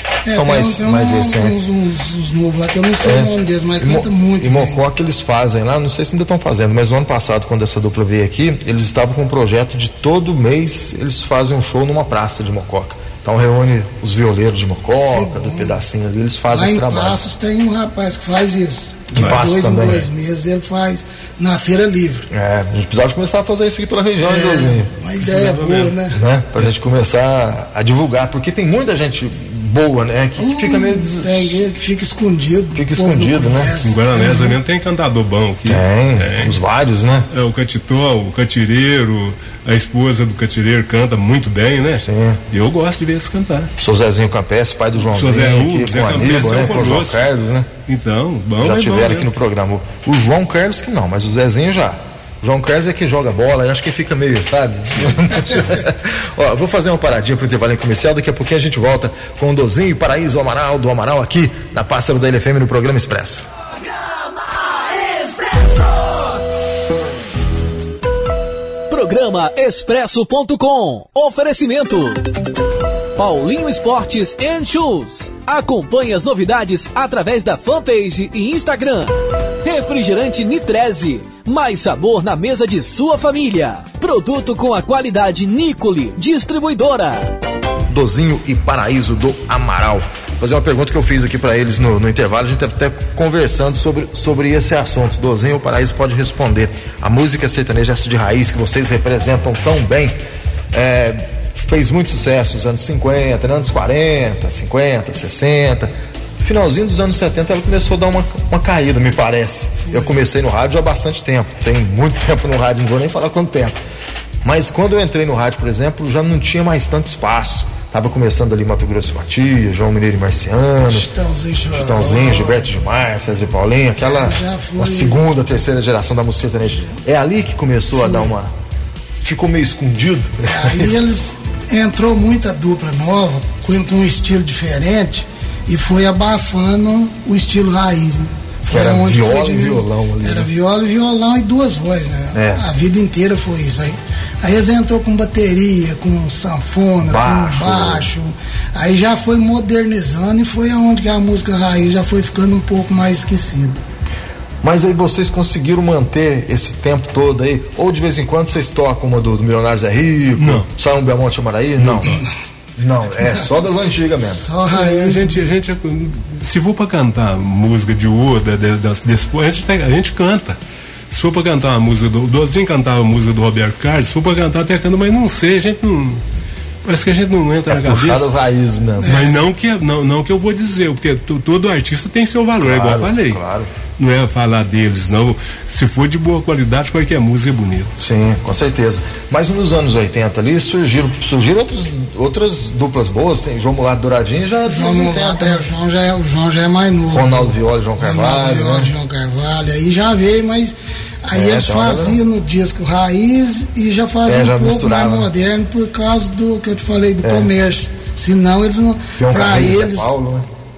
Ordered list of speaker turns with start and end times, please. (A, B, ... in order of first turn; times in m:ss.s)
0:00.2-0:04.8 A
0:00.3-0:01.6 B
0:03.0-0:17.2 B
0:15.1-0:15.8 A
0:16.5-0:22.3 A
0:19.2-0:20.1 B
0:19.2-0:19.5 C
0:22.3-0:24.9 B
0:24.2-0:26.2 A
0:25.2-0:26.0 C
0:26.1-0:31.7 B
0:30.4-0:34.6 A
0:32.8-0:33.8 B
0:33.8-0:36.6 C
0:35.6-0:37.3 B
0:37.3-0:43.7 C
0:42.0-0:42.4 B
0:43.8-0:47.7 B
0:45.1-0:47.2 C
0:47.9-0:49.3 C
0:48.6-1:03.4 B
1:08.9-1:12.2 D
1:13.2-1:27.3 D
1:27.9-1:40.1 B
1:40.7-1:53.8 B
1:49.8-1:50.2 A
1:54.4-2:01.1 B
2:00.8-2:02.6 A
2:01.7-2:08.5 B
2:04.0-2:05.2 A
2:08.0-2:08.3 A
2:09.2-2:11.0 B
2:10.5-2:33.8 A
2:18.7-2:20.5 B
2:22.3-2:22.6 B
2:27.0-2:28.1 B
2:34.6-2:42.2 B
2:40.4-2:40.7 C
2:41.8-2:42.2 C
2:42.0-2:42.3 A
2:42.8-2:44.4 B
2:44.2-2:45.4 A
2:44.7-2:50.6 C
2:51.1-2:56.2 C
2:56.8-2:58.3 C
2:57.7-2:59.2 B
2:59.0-2:59.4 A
2:59.0-3:03.4 C
3:02.6-3:03.7 B
3:04.0-3:07.9 C
3:08.0-3:15.7 B
3:14.7-3:30.1 A
3:17.1-3:18.9 B
3:21.3-3:22.2 B
3:24.2-3:25.3 B
3:27.2-3:27.5 B
3:29.2-3:30.5 B